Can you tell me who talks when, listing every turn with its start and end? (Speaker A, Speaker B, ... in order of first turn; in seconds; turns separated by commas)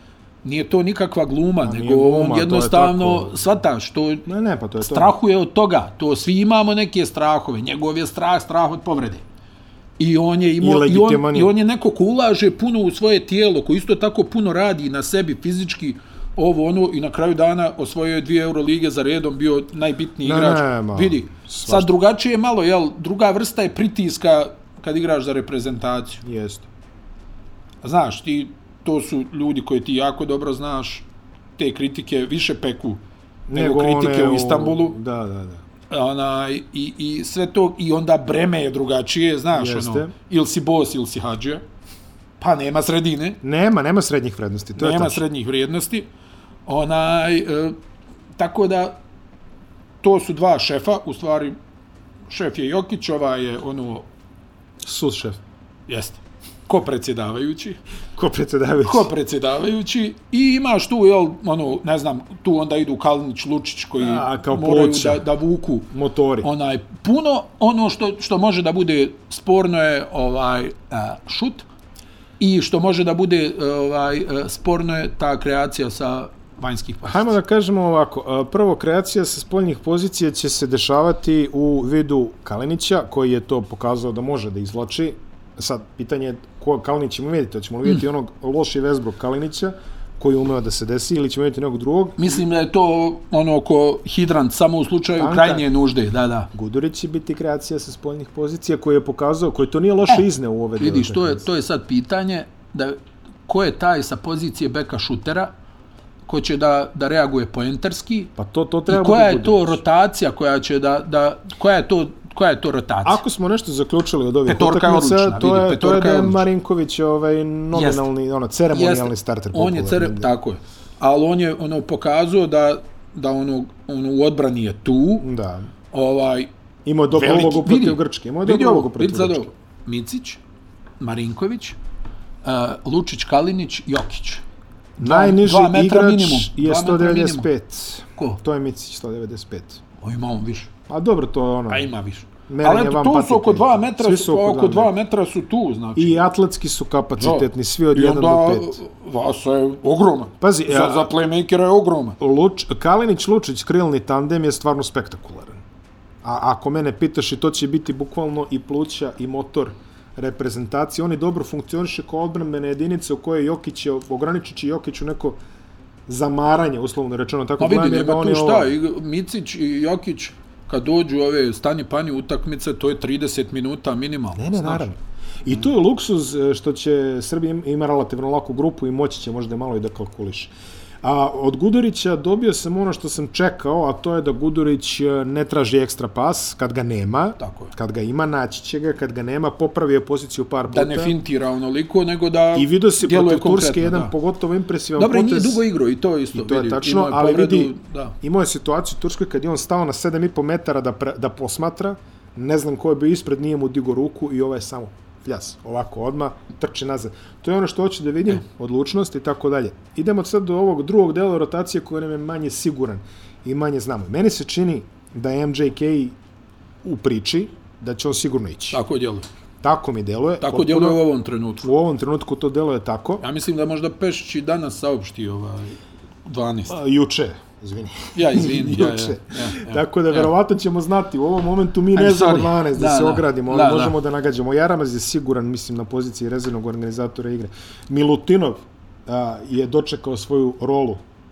Speaker A: 0.4-4.3, Speaker B: 1.6-3.4, Speaker B: 4.3-5.1, Speaker A: 4.8-9.2, Speaker A: 10.0-26.2, Speaker B: 10.6-11.5, Speaker B: 20.2-21.9, Speaker B: 26.2-26.7, Speaker A: 27.8-31.1, Speaker A: 31.6-33.0, Speaker B: 33.5-35.6, Speaker A: 33.5-35.0, Speaker A: 35.9-41.6, Speaker B: 39.5-40.1, Speaker A: 42.4-43.4, Speaker B: 43.4-45.2, Speaker A: 44.8-46.1, Speaker A: 46.7-47.8, Speaker A: 48.4-49.0, Speaker A: 50.0-51.6, Speaker A: 52.3-54.1, Speaker B: 54.8-55.4, Speaker A: 55.9-57.8, Speaker B: 58.2-59.1, Speaker A: 58.8-65.9, Speaker B: 64.0-65.3, Speaker B: 65.9-66.5, Speaker A: 66.4-71.7, Speaker A: 72.4-77.3, Speaker B: 77.0-92.3, Speaker A: 92.2-96.5, Speaker B: 95.2-95.7, Speaker B: 96.5-101.5, Speaker A: 100.8-105.5, Speaker A: 106.3-108.3, Speaker B: 108.4-109.8, Speaker A: 108.9-113.2, Speaker B: 113.0-120.3, Speaker A: 114.5-116.5, Speaker A: 117.7-118.1, Speaker A: 118.7-125.3, Speaker B: 125.2-125.7, Speaker A: 125.9-126.5, Speaker B: 126.8-129.5, Speaker A: 127.1-130.4, Speaker A: 131.0-131.8, Speaker A: 132.4-134.4, Speaker B: 135.0-139.8, Speaker A: 135.0-137.5, Speaker A: 140.0-140.7, Speaker B: 140.9-141.9, Speaker A: 141.7-146.2, Speaker B: 142.5-144.9, Speaker B: 146.0-148.8, Speaker A: 147.2-152.2, Speaker B: 150.4-151.1, Speaker B: 152.2-155.6, Speaker B: 156.2-165.4, Speaker B: 166.1-168.7, Speaker A: 167.6-174.9, Speaker B: 174.4-191.2, Speaker A: 187.4-187.7, Speaker A: 190.7-194.1, Speaker B: 192.5-195.6, Speaker A: 195.0-198.2, Speaker B: 196.3-216.2, Speaker B: 216.8-218.8, Speaker A: 218.7-219.3, Speaker B: 219.6-221.0, Speaker A: 220.4-221.7, Speaker B: 221.6-223.2, Speaker A: 223.2-226.8, Speaker B: 226.7-241.0, Speaker A: 228.2-230.3, Speaker A: 231.9-234.0